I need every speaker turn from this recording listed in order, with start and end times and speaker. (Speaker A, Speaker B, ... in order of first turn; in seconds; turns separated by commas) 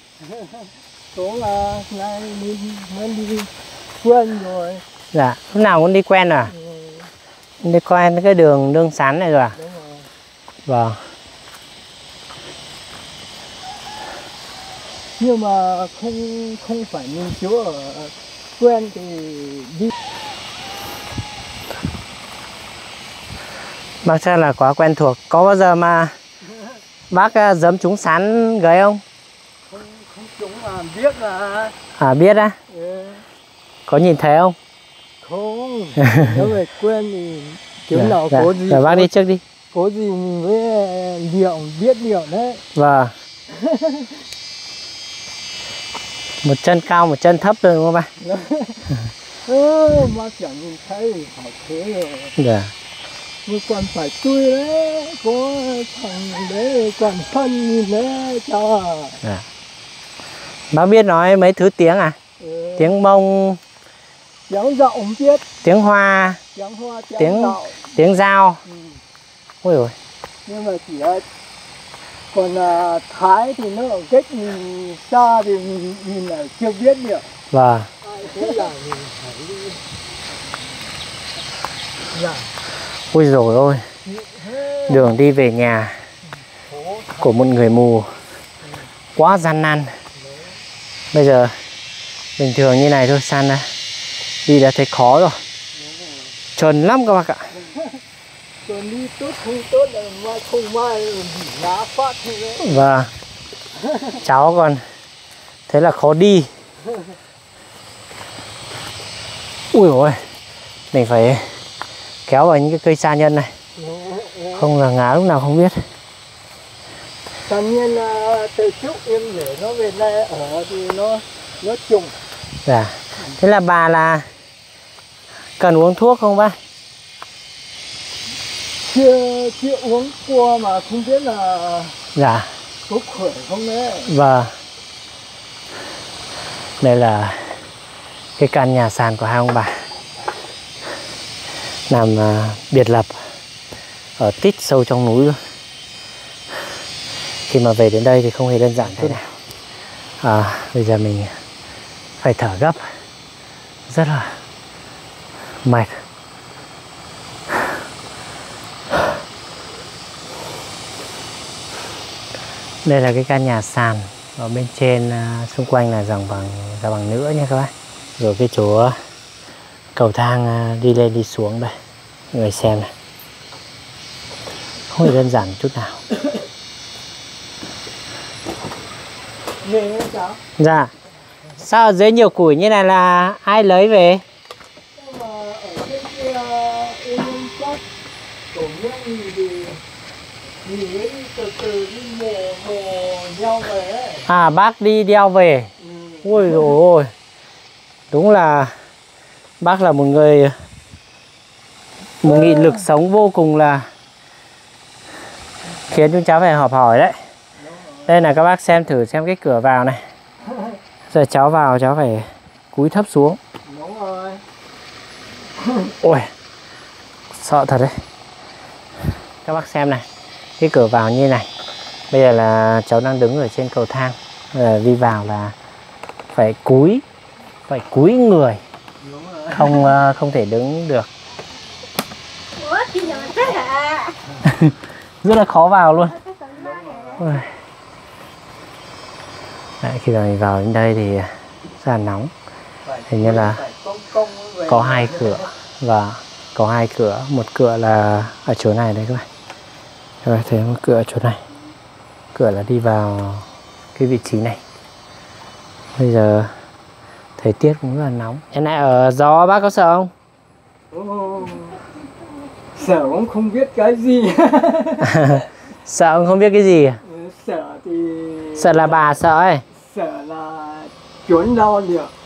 Speaker A: 0.2-4.8, Speaker B: 5.1-6.5, Speaker A: 6.5-7.1, Speaker B: 7.6-9.6, Speaker A: 9.6-10.1, Speaker B: 10.7-11.0, Speaker A: 15.2-19.9, Speaker B: 24.0-26.1, Speaker B: 27.1-29.0, Speaker A: 29.6-31.7, Speaker B: 32.0-32.5, Speaker A: 32.7-33.2, Speaker B: 33.9-34.5, Speaker A: 35.2-39.1, Speaker B: 36.0-36.4, Speaker B: 37.9-39.4, Speaker A: 39.7-42.6, Speaker B: 42.7-43.1, Speaker A: 43.5-44.1, Speaker B: 46.4-48.1, Speaker A: 48.2-48.9, Speaker A: 49.5-52.3, Speaker B: 52.4-52.7, Speaker A: 53.5-59.2, Speaker B: 60.7-62.1, Speaker A: 62.4-62.9, Speaker B: 62.8-63.6, Speaker A: 64.5-65.4, Speaker B: 65.6-66.4, Speaker A: 66.5-67.8, Speaker B: 67.2-68.6, Speaker A: 68.7-69.0, Speaker B: 69.6-69.9, Speaker A: 70.5-71.2, Speaker A: 72.3-77.3, Speaker B: 77.5-77.9, Speaker A: 78.0-79.4, Speaker A: 82.1-82.5, Speaker B: 83.1-83.8, Speaker A: 84.0-85.1, Speaker B: 84.9-86.0, Speaker A: 86.6-87.3, Speaker B: 87.2-88.1, Speaker B: 89.2-89.9, Speaker A: 90.2-90.5, Speaker B: 91.1-91.5, Speaker B: 92.4-93.7, Speaker B: 94.5-95.4, Speaker A: 95.8-96.2, Speaker B: 96.5-97.5, Speaker A: 97.5-98.0, Speaker A: 98.6-102.7, Speaker B: 102.6-103.1, Speaker A: 103.7-104.2, Speaker B: 104.2-104.8, Speaker B: 105.7-106.5, Speaker B: 109.7-110.2, Speaker B: 110.9-111.5, Speaker B: 112.2-113.5, Speaker A: 113.8-114.7, Speaker B: 114.5-115.8, Speaker A: 117.4-122.1, Speaker B: 122.7-124.3, Speaker B: 125.6-126.6, Speaker A: 128.8-132.0, Speaker B: 132.1-132.5, Speaker A: 132.9-134.1, Speaker B: 134.1-134.5, Speaker B: 136.8-137.6, Speaker B: 138.4-139.8, Speaker B: 141.9-143.1, Speaker B: 144.2-145.4, Speaker B: 147.5-149.2, Speaker B: 150.2-151.3, Speaker B: 152.2-152.8, Speaker B: 153.9-154.4, Speaker B: 155.6-155.9, Speaker B: 162.8-168.9, Speaker B: 169.9-171.7, Speaker B: 172.3-172.9, Speaker B: 174.9-176.0, Speaker A: 179.6-180.4, Speaker B: 180.6-180.9, Speaker B: 181.6-184.2, Speaker A: 184.9-187.8, Speaker A: 188.5-189.8, Speaker A: 190.6-194.3, Speaker B: 194.3-195.7, Speaker A: 195.8-196.7, Speaker B: 196.2-197.1, Speaker B: 198.1-198.7, Speaker B: 199.6-200.6, Speaker B: 202.2-203.9, Speaker A: 202.2-202.8, Speaker B: 205.9-207.2, Speaker A: 207.6-208.2, Speaker B: 208.1-210.0, Speaker A: 210.4-210.8, Speaker B: 211.1-213.4, Speaker A: 213.6-214.4, Speaker A: 215.6-215.9, Speaker B: 216.0-216.3, Speaker B: 217.3-218.0, Speaker B: 219.4-220.1, Speaker B: 220.6-221.5, Speaker B: 222.1-225.5, Speaker B: 226.3-227.0, Speaker B: 227.7-228.6, Speaker A: 229.0-229.9, Speaker B: 229.5-231.1, Speaker C: 232.5-234.2, Speaker B: 234.4-236.1, Speaker C: 236.0-237.3, Speaker A: 236.5-237.4, Speaker B: 239.8-242.3, Speaker A: 242.8-245.5, Speaker B: 243.1-243.6, Speaker B: 244.7-249.2, Speaker B: 250.2-251.4, Speaker B: 252.3-254.6, Speaker B: 255.9-256.5, Speaker B: 257.4-260.1, Speaker A: 260.9-261.8, Speaker A: 262.7-265.4, Speaker B: 265.0-267.0, Speaker A: 267.0-269.1, Speaker B: 268.6-269.6, Speaker A: 269.7-272.1